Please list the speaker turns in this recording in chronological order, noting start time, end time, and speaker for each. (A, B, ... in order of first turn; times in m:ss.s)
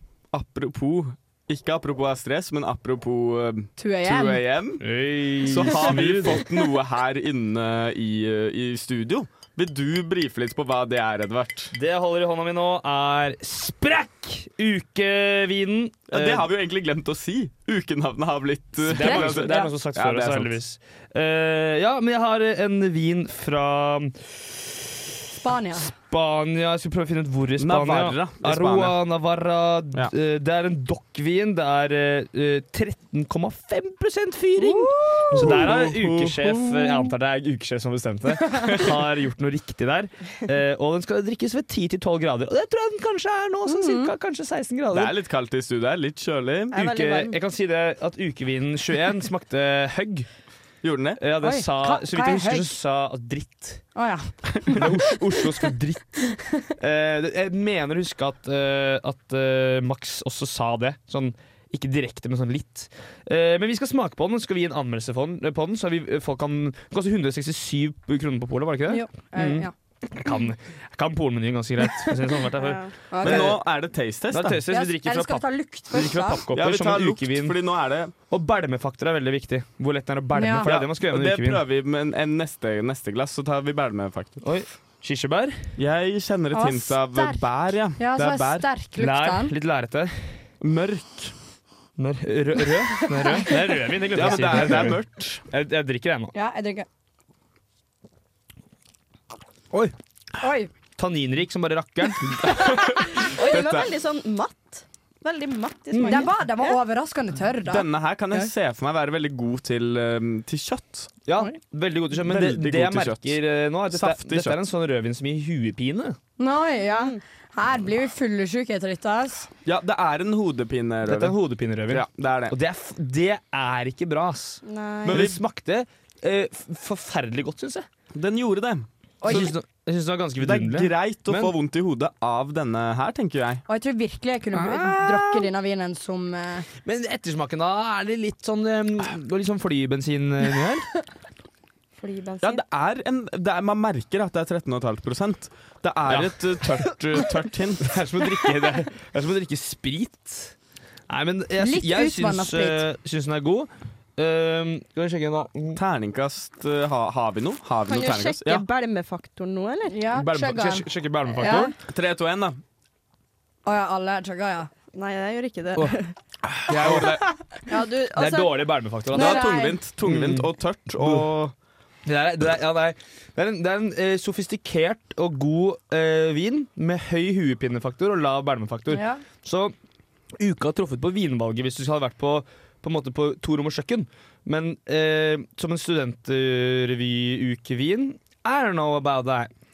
0:00.3-0:04.8 A
0:03.8-0:04.4 B
0:04.8-0:06.4 C
0:05.4-0:11.7 A
0:11.7-0:16.5 C
0:16.1-0:20.5 A
0:18.8-0:24.9 C
0:19.0-0:19.7 B
0:25.4-0:25.9 B
0:25.8-0:45.1 C
0:27.6-0:29.0 A
0:34.6-0:35.2 B
0:35.3-0:36.5 A
0:38.6-0:38.9 A
0:43.7-0:44.1 B
0:44.9-0:46.8 A
0:46.7-0:50.3 C
0:46.7-0:47.4 D
0:50.8-0:51.2 A
0:51.2-0:53.9 C
0:51.4-0:52.8 B
0:54.0-0:54.8 B
0:54.7-1:13.5 C
1:08.9-1:09.7 B
1:12.6-1:12.9 D
1:13.1-1:13.6 B
1:13.2-1:14.6 A
1:14.3-1:17.5 C
1:14.7-1:16.4 B
1:16.5-1:18.1 A
1:18.3-1:21.6 C
1:20.3-1:20.7 B
1:20.6-1:24.4 A
1:24.4-1:25.7 C
1:25.8-1:28.7 A
1:26.5-1:27.4 B
1:28.0-1:29.5 B
1:29.0-1:30.4 C
1:30.6-1:31.3 A
1:32.0-1:36.3 C
1:33.2-1:33.5 B
1:34.1-1:35.4 A
1:36.3-1:36.8 B
1:40.4-1:40.7 B
1:41.0-1:42.4 C
1:42.4-1:43.9 A
1:43.2-1:46.8 D
1:45.9-1:46.2 C
1:46.0-1:48.5 B
1:47.6-1:51.1 A
1:51.2-1:56.2 C
1:52.2-1:54.6 A
1:56.4-1:59.5 B
1:56.9-1:57.2 D
1:59.6-2:01.4 A
2:01.0-2:07.9 C
2:01.9-2:02.6 A
2:04.6-2:05.2 D
2:05.0-2:05.4 A
2:08.1-2:09.5 A
2:09.2-2:11.5 C
2:10.4-2:13.6 A
2:13.7-2:16.6 B
2:14.7-2:15.2 D
2:16.8-2:20.9 C
2:22.0-2:22.6 D
2:22.4-2:28.0 A
2:26.1-2:26.8 C
2:27.8-2:30.5 C
2:31.1-2:35.8 C
2:31.6-2:32.8 B
2:35.8-2:38.6 A
2:37.9-2:40.0 D
2:39.9-2:41.7 B
2:40.1-2:41.7 C
2:41.9-2:42.6 A
2:43.6-2:44.7 B
2:44.9-2:46.1 D
2:46.6-2:47.3 A
2:47.6-2:48.6 D
2:48.1-2:49.5 C
2:49.1-2:51.5 A
2:49.2-2:49.8 B
2:50.0-2:50.5 C
2:52.0-2:59.7 C
2:58.9-2:59.2 B
3:00.4-3:09.5 C